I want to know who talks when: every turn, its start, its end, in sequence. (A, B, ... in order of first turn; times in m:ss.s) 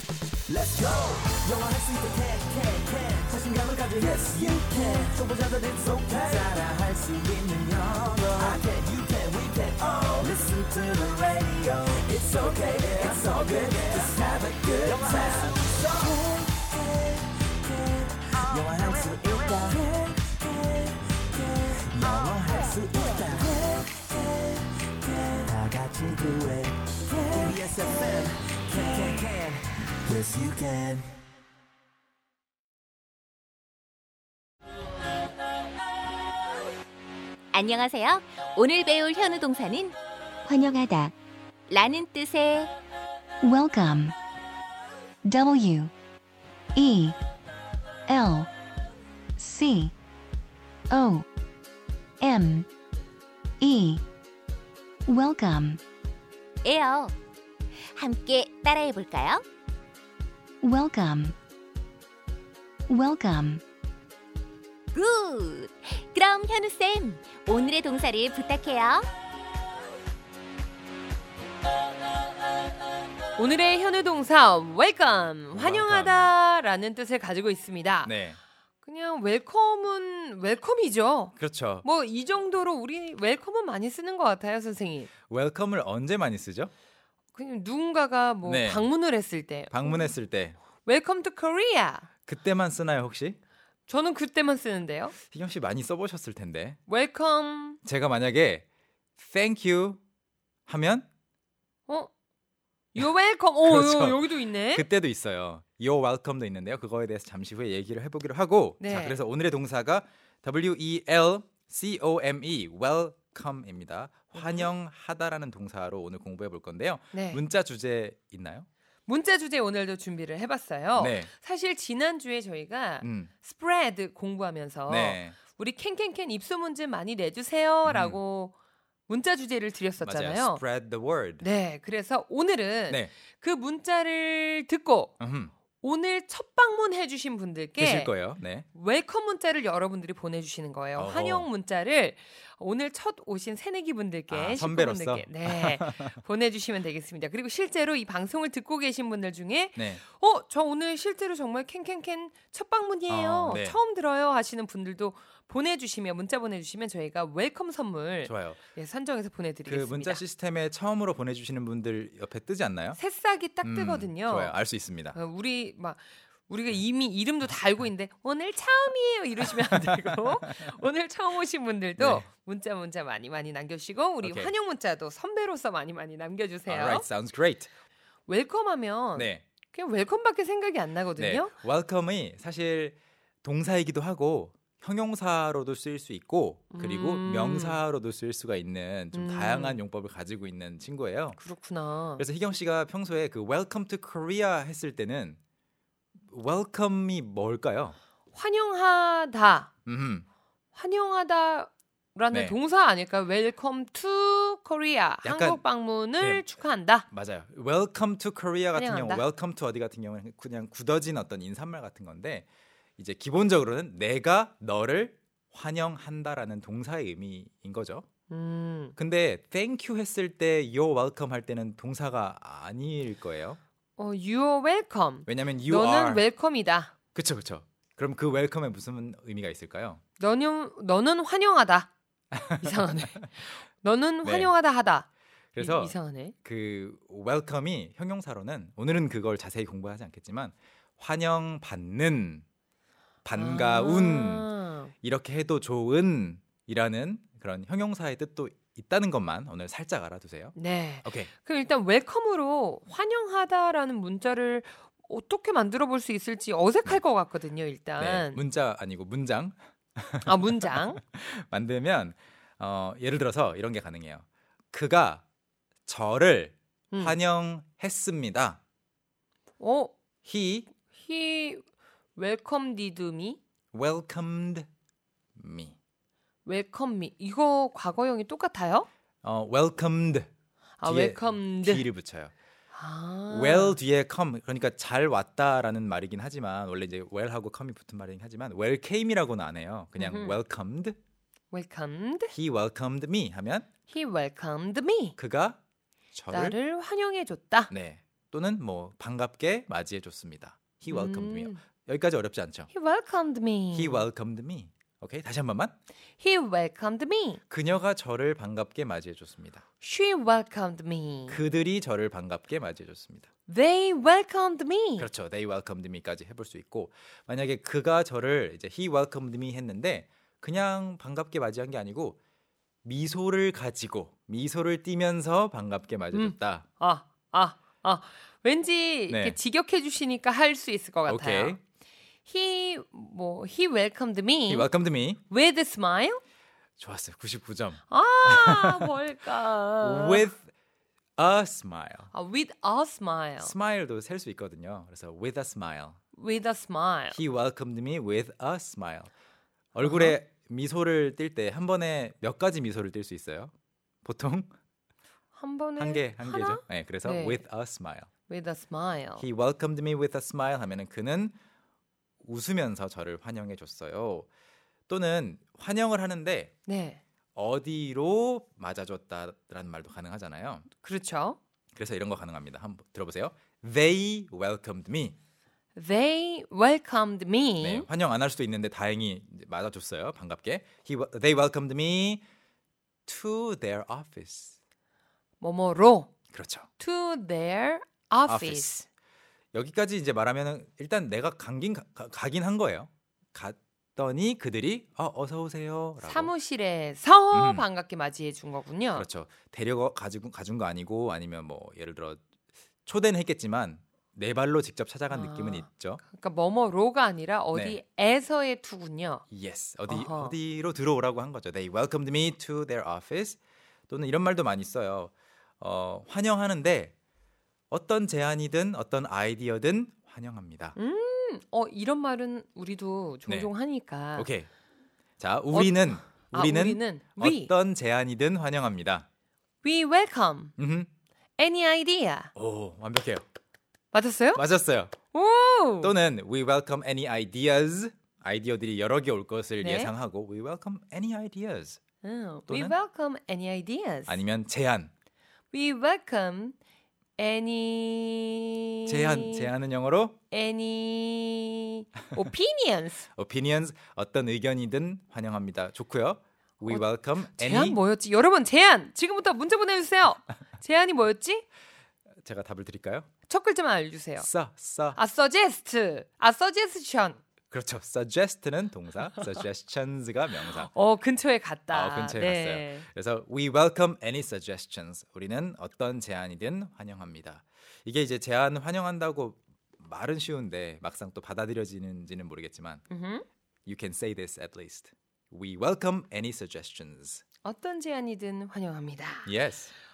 0:00.5-0:17.1 A
0:17.7-0:24.2 A
0:25.0-0:31.1 A
0:37.5-0:40.0 B
0:40.5-0:41.1 B
0:41.7-0:42.7 B
0:43.4-0:44.1 C
0:45.2-0:45.9 C
0:46.7-0:47.2 C
0:48.1-0:48.5 C
0:49.4-0:49.9 C
0:50.9-0:51.2 C
0:52.2-0:52.7 C
0:53.6-0:54.0 C
0:55.1-0:55.8 C
0:56.6-0:57.1 B
0:57.9-0:59.4 B
1:00.6-1:01.3 C
1:02.9-1:03.6 C
1:04.9-1:09.1 B
1:13.4-1:18.1 D
1:15.5-1:16.3 E
1:18.0-1:18.4 E
1:18.8-1:25.1 D
1:21.4-1:21.8 E
1:25.3-1:26.7 E
1:27.3-1:30.1 D
1:28.4-1:28.9 E
1:29.7-1:30.6 E
1:30.8-1:32.1 D
1:32.2-1:33.4 E
1:33.9-1:35.1 D
1:35.3-1:36.8 E
1:36.9-1:37.8 D
1:37.8-1:38.6 E
1:39.2-1:40.0 E
1:40.7-1:41.1 E
1:42.9-1:44.9 D
1:43.6-1:58.7 E
1:48.8-1:49.2 D
1:54.4-1:54.7 D
1:57.1-1:57.4 D
1:59.1-2:08.5 D
2:00.9-2:01.3 E
2:03.0-2:03.3 E
2:04.9-2:05.4 E
2:07.8-2:08.2 E
2:09.1-2:10.6 D
2:10.0-2:11.4 E
2:11.4-2:15.1 D
2:15.2-2:15.5 E
2:15.8-2:18.2 D
2:17.8-2:18.6 E
2:18.7-2:40.2 D
2:21.0-2:21.5 E
2:24.3-2:26.2 E
2:29.8-2:30.0 E
2:33.1-2:33.8 E
2:38.2-2:38.6 E
2:39.7-2:43.0 E
2:43.0-2:44.6 D
2:43.6-2:45.2 E
2:45.1-2:57.1 D
2:49.5-2:50.7 E
2:52.0-2:52.2 E
2:54.2-2:54.5 E
2:56.7-2:57.7 E
2:58.3-3:01.5 D
2:59.1-2:59.4 E
3:01.2-3:11.4 E
3:06.7-3:07.8 D
3:09.1-3:09.8 D
3:11.4-3:12.2 D
3:12.2-3:15.4 E
3:16.3-3:18.0 E
3:18.3-3:19.7 D
3:19.8-3:20.2 E
3:20.7-3:27.0 D
3:22.3-3:22.6 E
3:25.2-3:26.4 E
3:27.1-3:32.5 E
3:28.8-3:29.2 D
3:33.0-3:38.0 E
3:38.3-3:38.9 D
3:39.0-3:43.6 E
3:44.0-3:46.9 D
3:45.2-3:46.3 E
3:47.1-3:50.0 E
3:50.2-3:51.9 D
3:52.3-3:53.2 E
3:52.5-3:55.1 D
3:54.2-3:54.5 E
3:55.5-4:02.4 E
3:55.6-3:56.3 D
4:03.2-4:04.5 E
4:03.4-4:04.9 D
4:05.0-4:11.3 E
4:10.5-4:18.4 D
4:18.0-4:25.2 E
4:20.2-4:21.0 D
4:25.9-4:28.6 E
4:26.9-4:27.2 D
4:29.6-4:29.9 D
4:30.2-4:30.7 E
4:30.9-4:31.6 D
4:32.2-4:33.4 D
4:33.7-4:34.7 E
4:35.4-4:35.7 E
4:36.4-4:38.9 D
4:39.2-4:40.3 E
4:40.8-4:41.9 D
4:40.8-4:42.3 E
4:42.7-4:43.8 D
4:43.3-4:51.0 E
4:50.0-4:50.4 D
4:51.5-4:52.3 D
4:52.3-4:53.7 E
4:53.9-4:55.2 D
4:55.2-4:55.6 E
4:56.1-4:56.6 E
4:56.3-4:57.7 D
4:57.7-5:02.7 E
5:00.9-5:01.6 D
5:02.7-5:04.0 D
5:03.7-5:05.7 E
5:06.2-5:07.4 D
5:07.5-5:09.6 E
5:09.8-5:11.4 D
5:11.3-5:13.3 E
5:13.5-5:15.1 D
5:15.0-5:22.2 E
5:22.8-5:26.7 E
5:26.1-5:31.6 D
5:29.1-5:29.4 E
5:31.1-5:31.6 E
5:32.2-5:34.7 D
5:34.5-5:35.2 E
5:35.3-5:36.2 D
5:36.8-5:39.0 E
5:37.9-5:40.3 D
5:39.8-5:40.5 E
5:41.2-5:42.1 E
5:42.1-5:43.5 D
5:43.4-5:46.0 E
5:46.1-5:47.2 D
5:47.1-5:49.1 E
5:49.7-5:53.5 E
5:49.8-5:50.2 D
5:54.0-5:54.5 E
5:55.3-5:57.4 D
5:55.8-5:58.1 E
5:58.3-5:59.2 D
5:59.2-6:01.4 E
6:02.2-6:04.3 E
6:04.9-6:06.5 E
6:06.7-6:07.0 D
6:07.4-6:10.7 E
6:10.8-6:11.4 D
6:11.7-6:15.1 E
6:15.7-6:17.9 D
6:17.6-6:22.2 E
6:23.1-6:24.6 E
6:25.4-6:26.1 D
6:26.3-6:26.7 E
6:26.8-6:28.8 D
6:28.3-6:28.8 E
6:29.5-6:36.3 E
6:36.0-6:39.1 D
6:37.3-6:37.6 E
6:38.9-6:42.2 E
6:42.8-6:46.0 E
6:45.1-6:49.2 D
6:47.5-6:47.8 E
6:49.3-6:53.4 E
6:49.9-6:50.3 D
6:53.9-6:56.9 E
6:57.7-7:00.8 E
7:00.7-7:04.3 D
7:03.3-7:03.5 E
7:04.1-7:04.5 E
7:05.2-7:09.0 E
7:05.5-7:07.5 D
7:09.6-7:10.5 D
7:10.6-7:10.9 E
7:11.4-7:12.3 D
7:12.3-7:13.2 E
7:13.9-7:14.4 D
7:14.3-7:14.9 E
7:15.1-7:15.9 D
7:15.8-7:21.8 E
7:19.6-7:19.9 D
7:22.0-7:24.2 D
7:22.5-7:22.8 E
7:24.1-7:24.9 E
7:25.5-7:26.6 D
7:27.2-7:29.5 D
7:28.9-7:30.2 E
7:30.3-7:33.0 D
7:33.1-7:37.8 E
7:36.6-7:41.4 D
7:42.2-7:43.1 E
7:43.3-7:44.3 D
7:44.2-7:45.0 E
7:44.9-7:47.2 D
7:47.5-7:50.7 E
7:50.5-7:52.8 D
7:51.7-8:02.8 E
8:02.9-8:03.2 D
8:03.6-8:07.2 E
8:07.4-8:09.3 D
8:09.2-8:09.7 E